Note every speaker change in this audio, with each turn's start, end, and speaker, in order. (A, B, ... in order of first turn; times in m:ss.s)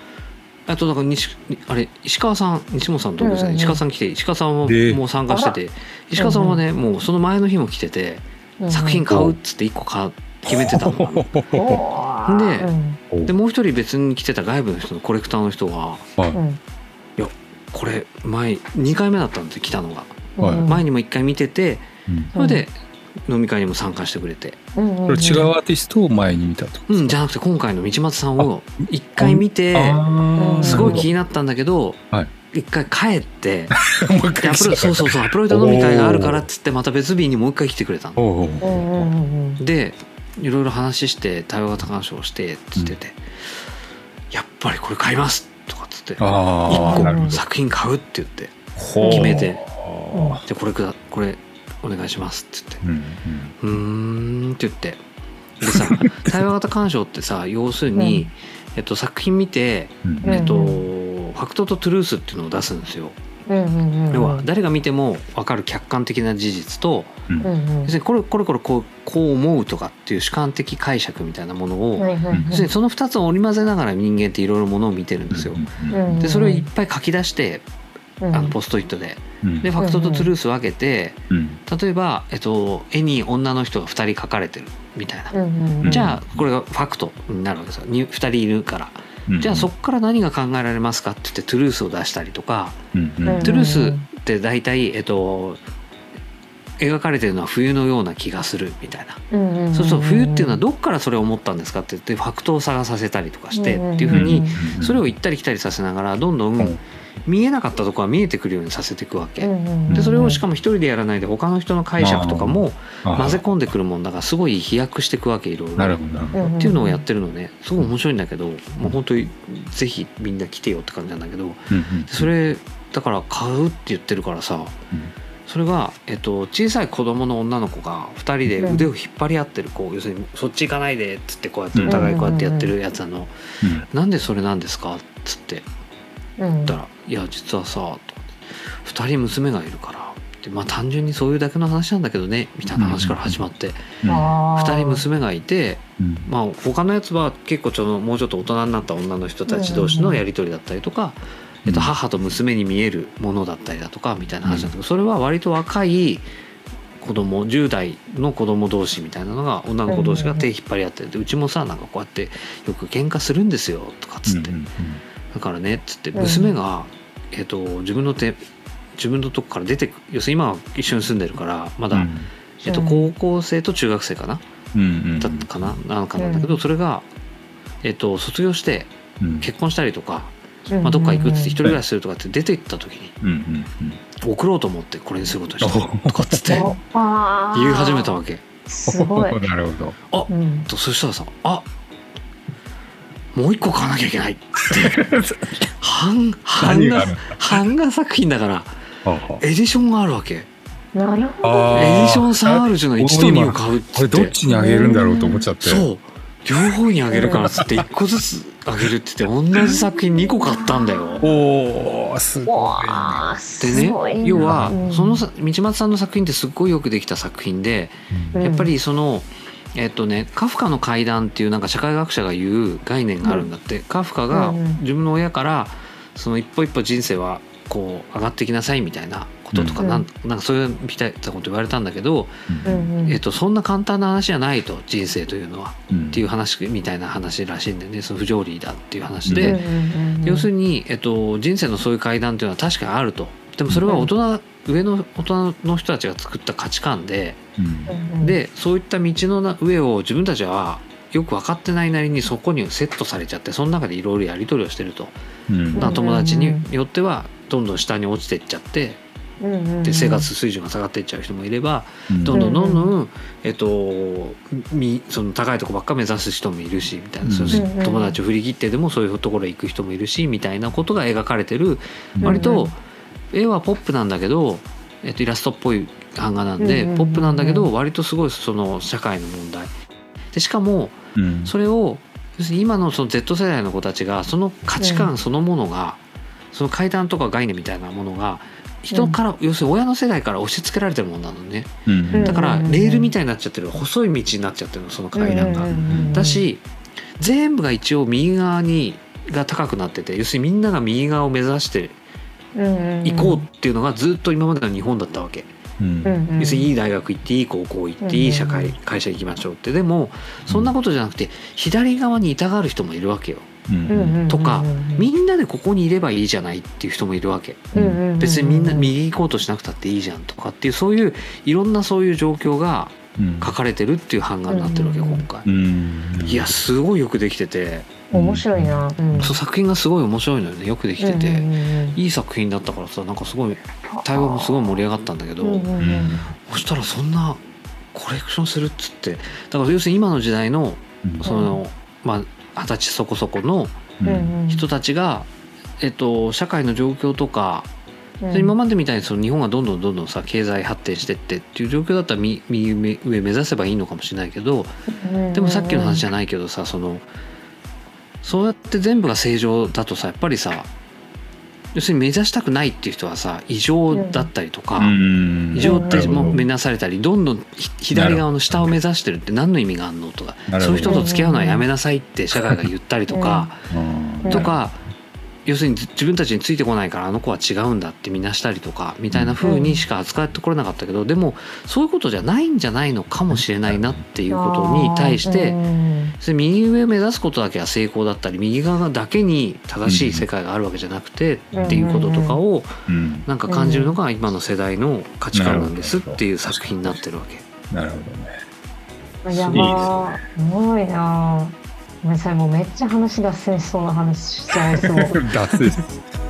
0:00.7-0:11.3 A
0:03.2-0:03.8 B
0:04.7-0:05.0 C
0:05.3-0:05.6 B
0:06.2-0:06.6 B
0:08.6-0:09.1 B
0:09.1-0:09.4 C
0:10.5-0:11.8 C
0:11.5-0:13.0 B
0:12.3-0:12.7 A
0:13.3-0:16.1 A
0:16.3-0:16.6 B
0:17.2-0:22.7 A
0:20.4-0:20.8 B
0:20.4-0:20.6 C
0:22.1-0:22.3 C
0:22.4-0:22.6 B
0:23.3-0:24.6 A
0:24.8-0:25.5 B
0:25.1-0:27.2 C
0:26.9-0:30.0 A
0:29.2-0:31.1 C
0:30.4-0:31.1 B
0:30.6-0:32.0 A
0:32.5-0:33.8 A
0:33.7-0:36.5 C
0:34.4-0:38.2 A
0:38.2-0:39.0 C
0:38.6-0:39.6 B
0:39.6-0:43.2 A
0:44.3-0:49.6 A
0:46.2-0:47.4 C
0:46.7-0:47.4 B
0:48.8-0:50.4 C
0:49.0-0:49.5 B
0:50.1-0:50.4 B
0:50.5-0:52.8 A
0:52.8-0:53.8 C
0:53.6-0:55.0 A
0:55.6-1:03.2 A
0:55.6-0:56.5 C
0:58.0-0:58.3 B
1:00.0-1:00.4 C
1:00.2-1:00.9 B
1:03.5-1:04.5 B
1:04.1-1:07.2 A
1:07.4-1:08.0 B
1:07.8-1:17.6 A
1:12.0-1:12.7 B
1:15.3-1:16.2 C
1:15.9-1:16.7 B
1:18.2-1:18.6 B
1:18.3-1:32.8 A
1:19.4-1:19.7 C
1:19.8-1:20.3 B
1:21.3-1:21.6 C
1:25.3-1:26.0 B
1:25.8-1:26.4 C
1:29.3-1:29.7 C
1:32.9-1:33.7 C
1:33.2-1:34.1 B
1:33.4-1:35.6 A
1:36.8-2:04.8 A
1:39.3-1:40.6 B
1:43.5-1:44.6 B
1:44.1-1:45.0 C
1:49.4-1:50.4 B
1:52.0-1:53.5 C
1:55.8-1:56.4 C
1:56.4-1:57.0 B
2:01.7-2:02.3 C
2:05.5-2:13.3 A
2:08.6-2:08.9 B
2:11.7-2:12.1 C
2:11.9-2:12.7 B
2:13.8-2:15.7 A
2:16.4-2:16.8 B
2:16.7-2:18.3 A
2:18.8-2:24.0 A
2:22.8-2:23.4 C
2:24.0-2:24.3 C
2:24.1-2:25.0 B
2:24.5-2:36.3 A
2:26.0-2:26.3 C
2:29.5-2:30.2 B
2:31.6-2:31.9 C
2:34.4-2:34.7 C
2:37.0-2:44.6 A
2:39.9-2:40.5 B
2:44.3-2:45.0 C
2:45.3-2:48.4 A
2:46.2-2:46.5 B
2:49.0-2:52.1 A
2:51.9-2:52.3 C
2:52.6-2:54.4 A
2:52.7-2:53.1 B
2:54.7-2:55.8 C
2:55.2-2:57.1 A
2:56.2-2:56.6 B
2:57.8-3:03.2 A
2:59.2-2:59.5 C
3:00.7-3:01.6 B
3:03.2-3:04.0 C
3:04.2-3:06.7 A
3:05.6-3:06.5 C
3:06.5-3:08.2 B
3:07.5-3:08.4 A
3:08.7-3:09.4 B
3:08.9-3:10.0 C
3:10.1-3:11.7 A
3:10.3-3:10.7 B
3:13.3-3:15.0 A
3:14.7-3:15.6 C
3:15.8-3:18.7 A
3:16.6-3:17.7 C
3:19.0-3:19.4 C
3:19.4-3:20.5 A
3:21.0-3:21.9 B
3:21.4-3:25.9 C
3:21.7-3:24.4 A
3:24.5-3:25.5 B
3:25.6-3:31.2 A
3:26.7-3:27.9 C
3:27.1-3:27.6 B
3:30.1-3:31.3 B
3:31.2-3:34.8 C
3:32.4-3:35.2 B
3:33.6-3:52.5 A
3:38.3-3:38.7 B
3:44.3-3:44.8 B
3:49.5-3:49.8 C
3:49.8-3:50.1 B
3:52.5-3:52.9 C
3:52.6-3:53.2 B
3:53.0-3:59.6 A
3:55.9-3:56.2 C
3:59.2-3:59.6 C
3:59.4-4:00.5 B
4:00.2-4:07.4 A
4:03.7-4:04.0 C
4:07.6-4:07.9 C
4:07.9-4:08.4 B
4:08.2-4:15.2 A
4:15.5-4:16.0 C
4:15.7-4:19.0 A
4:15.8-4:16.6 B
4:19.4-4:20.3 B
4:19.8-4:32.8 A
4:22.1-4:22.4 C
4:22.3-4:22.9 B
4:27.2-4:27.7 C
4:27.5-4:28.2 B
4:32.2-4:32.5 C
4:32.2-4:32.7 B
4:33.3-4:39.7 A
4:36.6-4:37.7 B
4:40.3-4:46.0 A
4:41.2-4:41.5 C
4:44.8-4:45.1 B
4:46.5-4:56.6 A
4:48.9-4:49.2 B
4:51.9-4:52.4 C
4:52.1-4:53.1 B
4:55.2-4:56.4 B
4:55.7-4:56.2 C
4:57.2-5:02.0 A
5:02.6-5:03.5 B
5:03.0-5:05.5 A
5:05.8-5:06.2 C
5:06.0-5:06.7 B
5:06.4-5:13.5 A
5:08.0-5:08.8 B
5:10.5-5:10.7 C
5:13.7-5:14.2 C
5:13.9-5:15.1 B
5:14.3-5:25.5 A
5:17.7-5:18.9 B
5:17.8-5:18.0 C
5:23.2-5:23.5 C
5:24.5-5:25.3 B
5:25.4-5:26.6 C
5:26.2-5:28.1 A
5:28.1-5:29.3 C
5:28.1-5:29.4 B
5:29.2-5:35.7 A
5:31.0-5:32.0 B
5:33.9-5:34.8 B
5:35.4-5:36.2 B
5:35.8-5:36.2 C
5:36.4-5:37.4 A
5:37.9-5:44.0 A
5:41.2-5:41.6 B
5:44.0-5:44.3 C
5:44.0-5:44.6 B
5:44.5-5:45.3 A
5:45.8-5:47.7 A
5:48.2-5:48.6 B
5:48.3-5:54.7 A
5:54.9-5:56.0 B
5:55.3-5:57.1 A
5:58.2-6:00.7 A
6:01.7-6:05.0 A
6:03.9-6:04.3 B
6:04.8-6:06.4 C
6:05.5-6:13.6 A
6:05.6-6:06.4 B
6:07.9-6:08.8 C
6:10.5-6:11.1 C
6:10.8-6:11.6 B
6:12.4-6:12.6 C
6:13.1-6:13.5 B
6:13.7-6:14.5 C
6:14.2-6:14.5 B
6:14.3-6:14.8 A
6:15.5-6:25.6 A
6:19.1-6:19.4 C
6:19.4-6:19.8 B
6:24.3-6:26.2 B
6:26.2-6:32.7 A
6:29.8-6:30.3 C
6:31.5-6:31.9 C
6:31.7-6:32.4 B
6:32.9-6:33.3 C
6:33.3-6:37.5 A
6:33.5-6:34.0 B
6:35.3-6:37.0 C
6:37.7-6:38.4 C
6:39.2-6:45.2 B
6:39.3-6:40.0 A
6:39.5-6:40.1 C
6:44.6-6:46.0 C